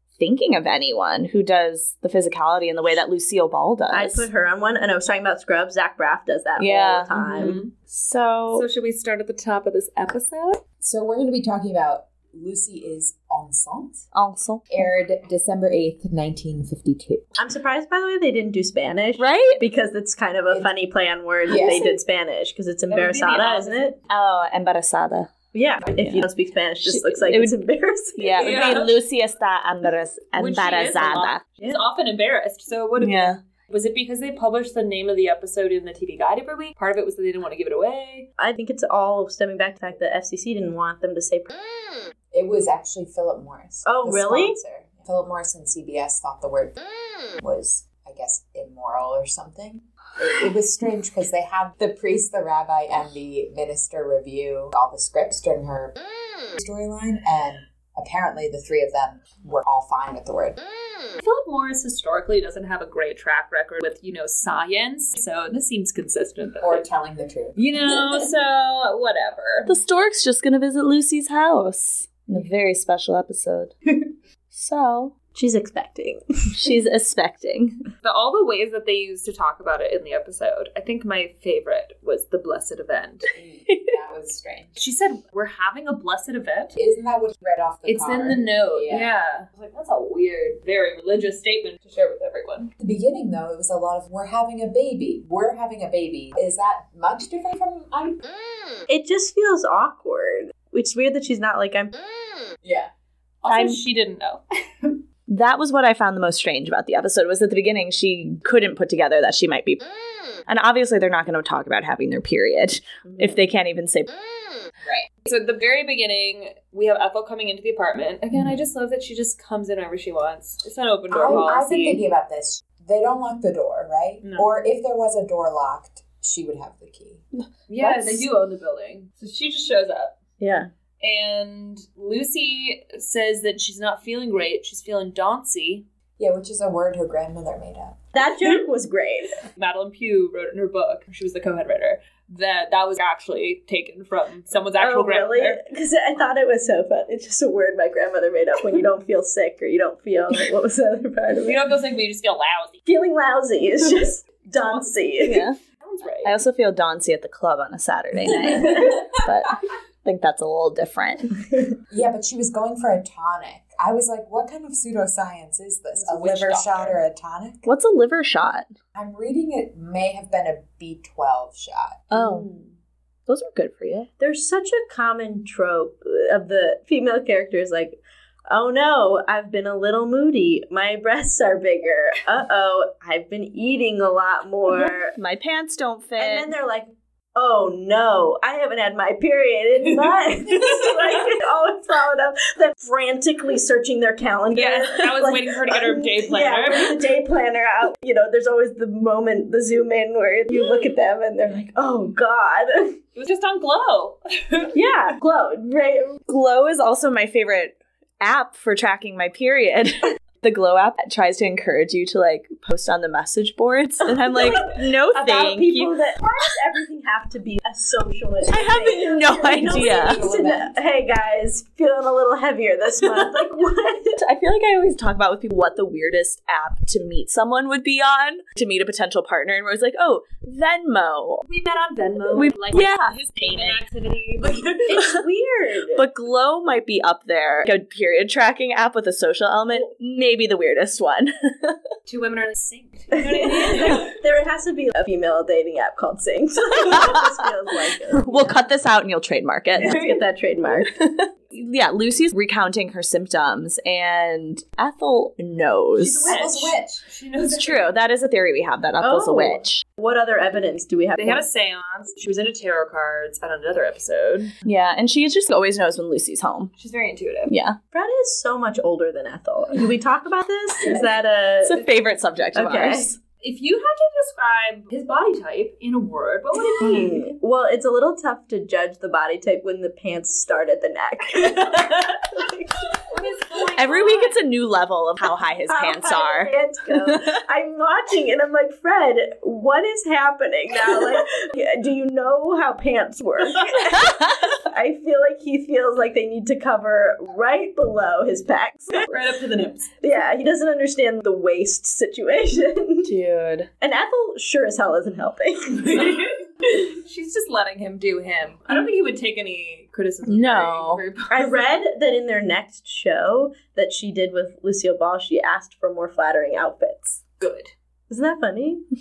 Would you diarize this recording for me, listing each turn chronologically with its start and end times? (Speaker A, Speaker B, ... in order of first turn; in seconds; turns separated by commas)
Speaker A: 0.2-4.3, Speaker B: 3.9-7.6, Speaker A: 6.6-8.7, Speaker C: 7.1-7.8, Speaker C: 8.5-10.6, Speaker D: 10.8-14.1, Speaker A: 14.1-14.6, Speaker D: 14.7-17.3, Speaker B: 17.4-24.0, Speaker A: 19.2-19.6, Speaker D: 21.5-22.0, Speaker C: 22.9-23.9, Speaker A: 24.1-25.3, Speaker B: 25.5-28.8, Speaker A: 25.9-26.3, Speaker A: 26.9-27.6, Speaker A: 28.2-31.4, Speaker C: 28.4-29.0, Speaker C: 30.4-38.3, Speaker A: 33.0-33.4, Speaker B: 38.4-41.5, Speaker D: 42.3-46.8, Speaker B: 43.9-44.8, Speaker D: 47.4-56.0, Speaker D: 56.6-60.6, Speaker C: 61.2-66.9, Speaker D: 66.6-67.7, Speaker C: 67.6-69.8, Speaker A: 69.7-73.8, Speaker A: 74.5-75.1, Speaker B: 75.3-76.6, Speaker A: 76.5-77.8, Speaker C: 78.0-83.3, Speaker D: 83.3-84.8, Speaker C: 84.8-86.8, Speaker D: 86.8-89.1, Speaker C: 87.9-92.7, Speaker D: 92.8-98.2, Speaker B: 98.9-102.0, Speaker D: 102.6-102.9, Speaker C: 103.4-104.9, Speaker A: 103.5-103.8, Speaker A: 105.3-109.8, Speaker A: 110.5-114.1, Speaker B: 113.0-113.3, Speaker D: 114.8-115.1, Speaker C: 115.2-122.0, Speaker D: 121.1-127.2, Speaker C: 124.2-124.5, Speaker C: 127.7-130.2, Speaker D: 127.8-128.3, Speaker B: 130.4-130.7, Speaker C: 131.0-135.9, Speaker D: 136.2-138.1, Speaker B: 138.1-139.4, Speaker C: 139.6-145.6, Speaker B: 144.8-151.7, Speaker C: 151.4-152.8, Speaker B: 152.9-155.5, Speaker A: 155.2-155.6, Speaker C: 155.8-156.3, Speaker A: 156.2-161.5, Speaker D: 161.9-167.7, Speaker C: 166.0-167.0, Speaker A: 167.7-168.7, Speaker D: 168.9-172.1, Speaker A: 172.1-172.5, Speaker B: 172.1-172.7, Speaker A: 173.3-174.1, Speaker B: 174.2-185.2, Speaker A: 184.7-186.5, Speaker B: 186.2-203.0, Speaker C: 194.5-197.0, Speaker C: 203.2-204.7, Speaker B: 204.7-206.2, Speaker A: 206.3-216.0, Speaker B: 214.3-224.2, Speaker A: 218.5-220.2, Speaker D: 219.5-220.8, Speaker A: 224.2-231.4, Speaker C: 231.4-234.9, Speaker A: 232.3-233.8, Speaker B: 234.9-236.1, Speaker A: 235.9-241.8, Speaker C: 242.1-244.1, Speaker B: 243.2-248.6, Speaker A: 248.1-250.2, Speaker B: 249.8-250.9, Speaker A: 250.8-256.4, Speaker C: 256.0-257.9, Speaker D: 256.2-257.0, Speaker A: 257.4-259.8, Speaker B: 259.0-261.4, Speaker C: 261.2-264.5, Speaker A: 264.6-266.7, Speaker C: 266.8-267.5, Speaker A: 267.5-267.8, Speaker B: 267.9-271.8, Speaker A: 271.6-273.2, Speaker B: 272.6-273.1, Speaker C: 273.4-277.3, Speaker B: 276.8-283.2, Speaker C: 283.1-284.4, Speaker A: 283.8-286.5, Speaker B: 285.7-299.1, Speaker A: 287.1-287.4, Speaker C: 299.0-299.9, Speaker B: 300.0-303.1, Speaker A: 303.1-303.7, Speaker B: 303.8-306.3, Speaker C: 305.9-311.6, Speaker A: 310.3-311.0, Speaker B: 311.3-317.2, Speaker C: 317.4-317.7, Speaker B: 318.1-318.9